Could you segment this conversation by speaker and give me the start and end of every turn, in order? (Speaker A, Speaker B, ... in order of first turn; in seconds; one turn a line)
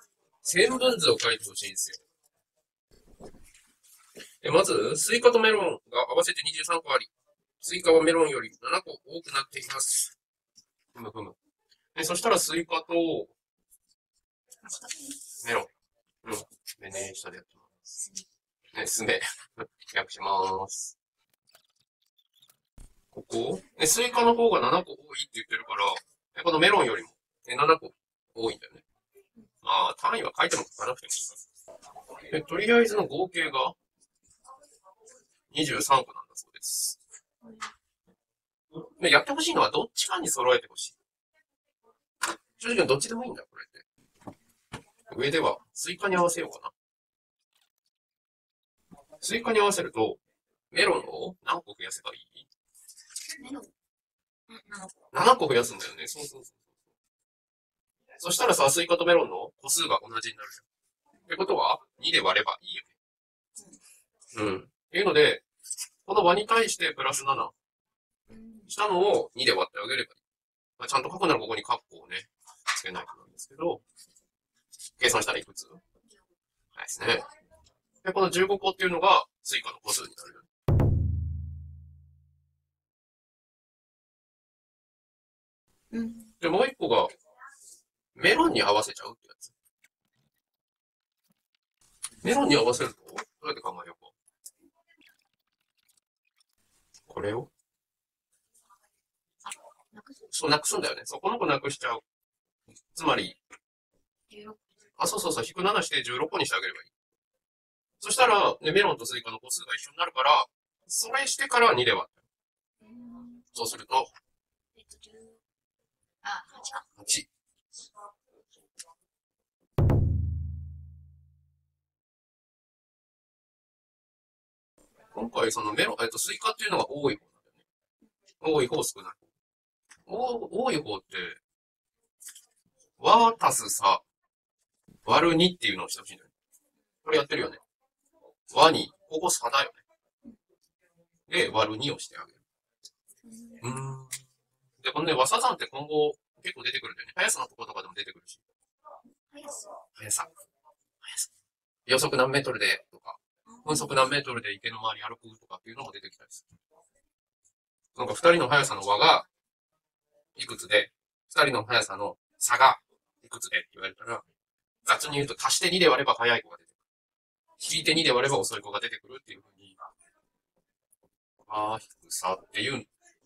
Speaker A: 0.4-2.0
Speaker A: 4.4-10.1
Speaker A: 10.9-11.4
Speaker A: 11.9-13.3
Speaker B: 14.7-15.1
Speaker A: 15.4-15.7
Speaker A: 16.2-17.9
Speaker A: 18.7-20.9
Speaker A: 23.1-28.8
Speaker A: 29.6-31.4
Speaker A: 32.2-33.8
Speaker A: 35.5-37.0
Speaker B: 37.4-37.7
Speaker A: 38.8-41.0
Speaker A: 42.6-43.8
Speaker A: 45.1-46.7
Speaker A: 49.2-50.2
Speaker A: 50.7-52.5
Speaker B: 53.4-53.7
Speaker B: 54.5-54.9
Speaker A: 55.1-56.8
Speaker A: 58.2-60.6
Speaker A: 61.3-63.0
Speaker A: 64.3-65.4
Speaker A: 66.0-67.5
Speaker B: 68.3-68.7
Speaker A: 68.7-70.2
Speaker A: 70.8-73.8
Speaker A: 75.0-75.8
Speaker A: 76.7-77.3
Speaker A: 78.0-80.5
Speaker B: 85.9-86.3
Speaker A: 86.4-87.1
Speaker A: 88.1-89.5
Speaker A: 92.2-94.1
Speaker A: 97.1-97.5
Speaker B: 99.5-100.3
Speaker A: 100.3-102.0
Speaker A: 102.9-103.4
Speaker B: 104.3-104.6
Speaker A: 105.0-106.9
Speaker A: 108.0-112.3
Speaker B: 112.8-113.5
Speaker A: 113.5-114.1
Speaker B: 114.8-115.4
Speaker B: 116.2-116.8
Speaker A: 117.0-117.3
Speaker A: 125.1-127.7
Speaker A: 128.4-129.3
Speaker A: 130.1-131.4
Speaker A: 133.0-134.0
Speaker A: 135.1-136.3
Speaker A: 137.0-137.6
Speaker A: 138.5-139.8
Speaker A: 141.3-142.4
Speaker B: 143.2-143.7
Speaker A: 143.6-144.2
Speaker A: 144.8-148.4
Speaker B: 149.3-149.7
Speaker A: 149.9-150.3
Speaker A: 151.0-151.3
Speaker A: 151.9-156.4
Speaker B: 153.5-154.2
Speaker A: 157.9-159.3
Speaker A: 160.4-164.2
Speaker A: 164.9-166.7
Speaker A: 167.6-169.8
Speaker A: 171.5-172.9